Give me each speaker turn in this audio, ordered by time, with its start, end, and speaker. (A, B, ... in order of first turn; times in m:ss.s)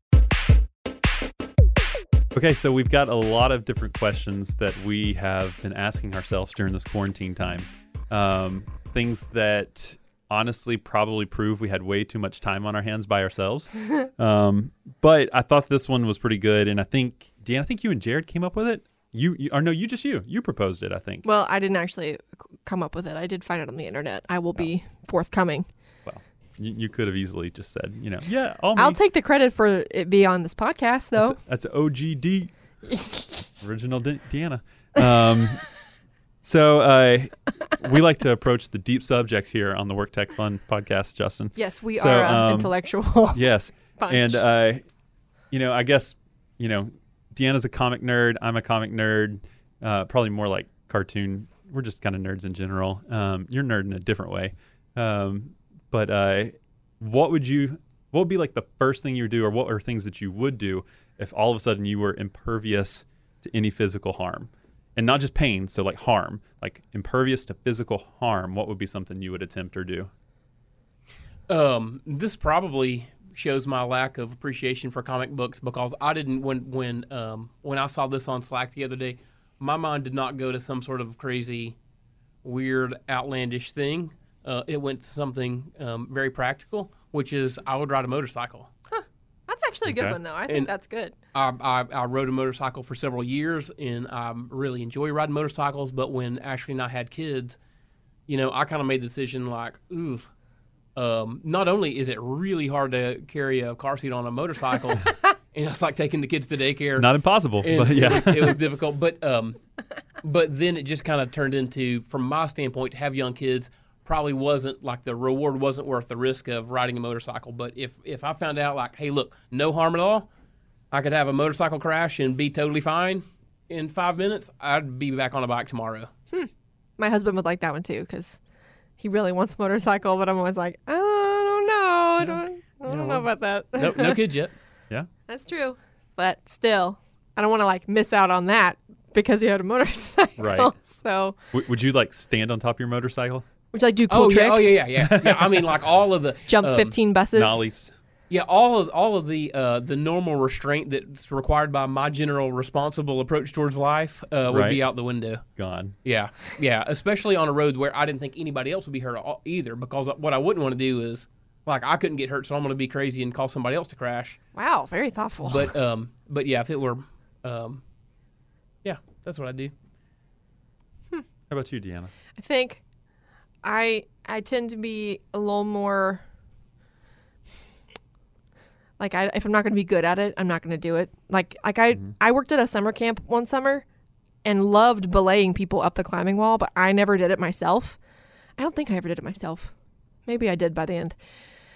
0:02.3-0:21.2 A
0:21.2-0:25.6 B
0:26.0-0:29.0 A
0:28.8-0:31.4 B
0:31.2-0:32.5 A
0:32.9-0:33.6 B
0:33.6-0:35.6 A
0:36.4-0:42.7 A
0:41.6-0:44.4 B
0:43.3-0:44.8 A
0:45.5-1:10.1 A
1:11.5-1:21.7 C
1:22.4-1:28.7 C
1:28.9-1:31.1 B
1:29.8-1:30.2 A
1:31.3-1:37.6 C
1:38.3-1:40.2 C
1:40.9-1:49.6 C
1:47.0-1:48.6 A
1:50.2-2:00.3 C
2:00.9-2:06.1 C
2:06.3-2:08.4 B
2:09.0-2:14.2 B
2:12.9-2:13.2 C
2:13.8-2:14.5 C
2:15.3-2:21.4 B
2:20.4-2:20.7 A
2:21.5-2:23.4 A
2:23.7-2:24.8 B
2:24.1-2:27.0 C
2:25.0-2:25.7 A
2:26.5-2:27.6 B
2:27.3-2:27.9 A
2:28.3-2:35.4 C
2:34.5-2:34.8 A
2:35.6-2:35.9 A
2:36.0-2:44.4 C
2:44.5-2:45.7 B
2:45.4-2:47.8 C
2:48.8-2:49.7 C
2:51.5-2:52.1 A
2:52.4-2:52.8 B
2:53.6-2:56.2 B
2:59.0-3:03.8 B
3:04.4-3:08.0 B
3:08.6-3:09.7 B
3:10.2-3:11.2 B